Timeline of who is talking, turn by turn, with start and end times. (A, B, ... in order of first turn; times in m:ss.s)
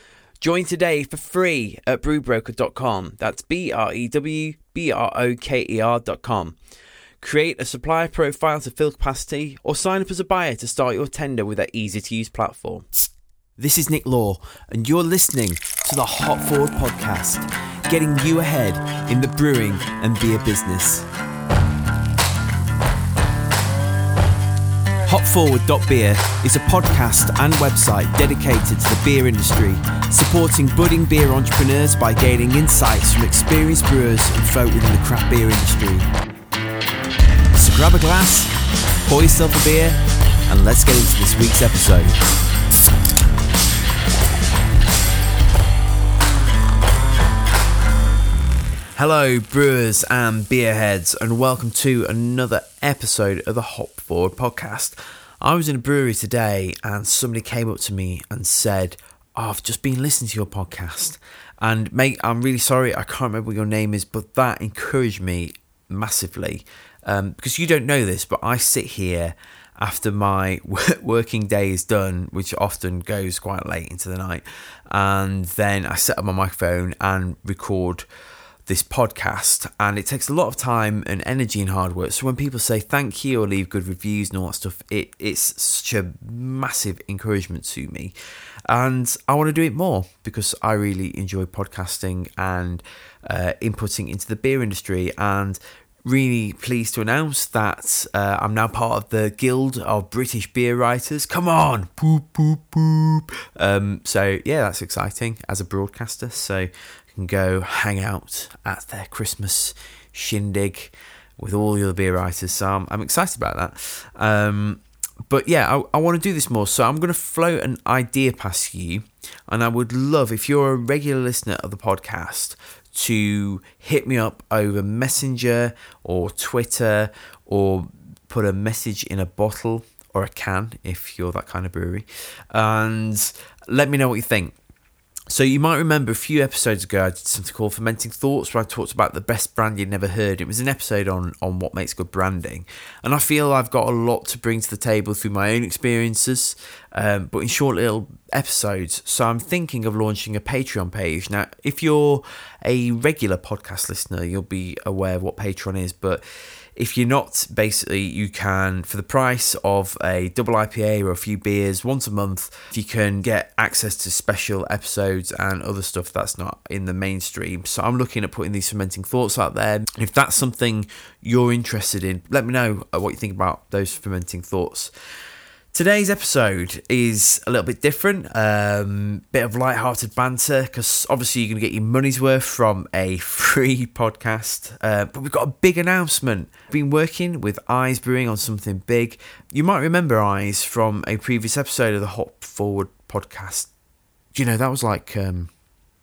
0:00.4-0:06.6 A
0:07.2-0:12.9 A
0:13.6-0:21.1 A
0:25.1-0:36.1 A
0:37.5-0:42.2 A
0:49.0-1:18.1 A
1:18.7-1:28.2 A
1:28.7-2:14.6 A
2:15.3-2:54.9 A
2:55.7-3:13.7 A
3:14.3-3:15.5 A